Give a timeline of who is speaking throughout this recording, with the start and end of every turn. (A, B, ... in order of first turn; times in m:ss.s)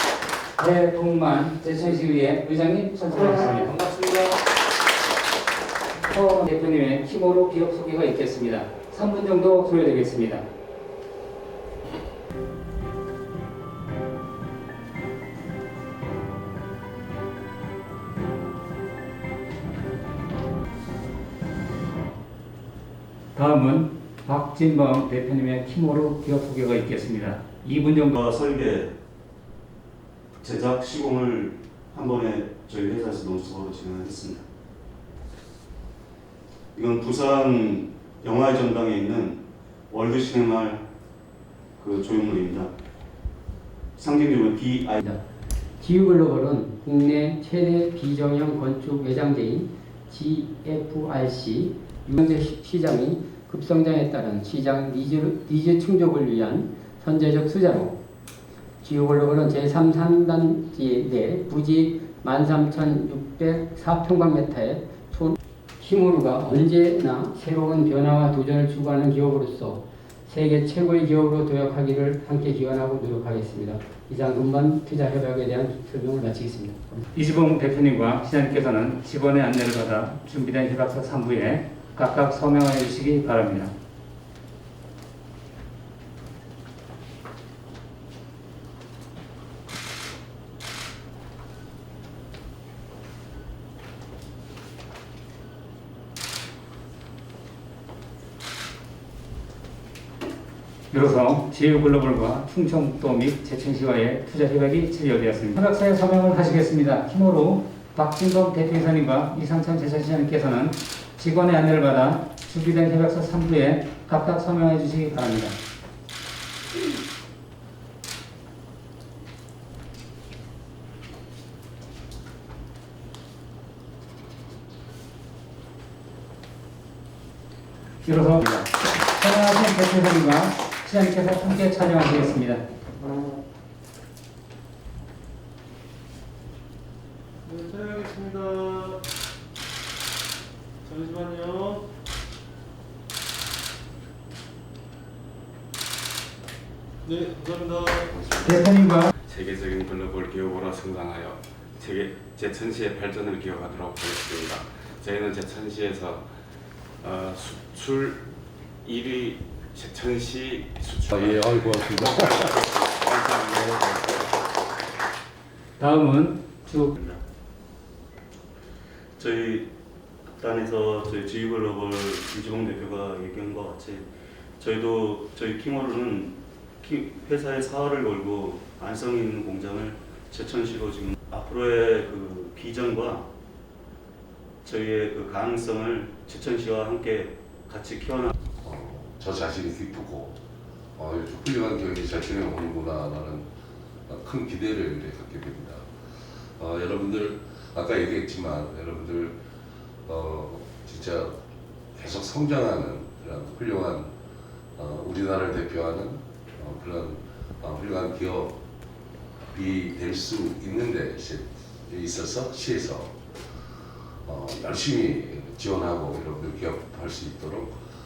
0:00.6-0:03.8 A
0:03.8-0:04.4 B
0:06.1-0:10.4 A
0:23.4-0:28.2 A
0:28.1-0:28.9 C
0:30.4-0:34.4 C
0:36.8-0:40.8 C
0:41.8-0:42.7 C
0:44.0-0:45.0 C
0:45.8-0:58.0 D
0:58.8-1:17.0 D
1:17.1-1:23.7 A
1:40.9-1:55.6 A
2:08.0-2:12.6 A
2:17.4-2:19.0 B
2:20.8-2:21.9 B
2:27.0-2:28.1 B
2:28.1-2:28.7 E
2:28.4-2:29.1 A
2:29.2-2:36.3 E
2:37.0-2:38.2 E
2:38.8-2:44.3 E
2:41.2-2:42.5 F
2:45.8-2:46.9 A
2:49.2-2:49.7 C
2:50.3-2:54.1 C
2:54.6-3:03.3 C
3:04.6-3:08.3 C
3:08.6-3:10.4 F
3:11.0-3:13.5 F
3:14.1-3:15.9 F
3:16.6-3:19.4 F
3:20.1-3:21.4 F
3:22.0-3:24.1 F
3:24.8-3:28.6 F
3:29.5-3:33.2 F
3:34.2-3:37.8 F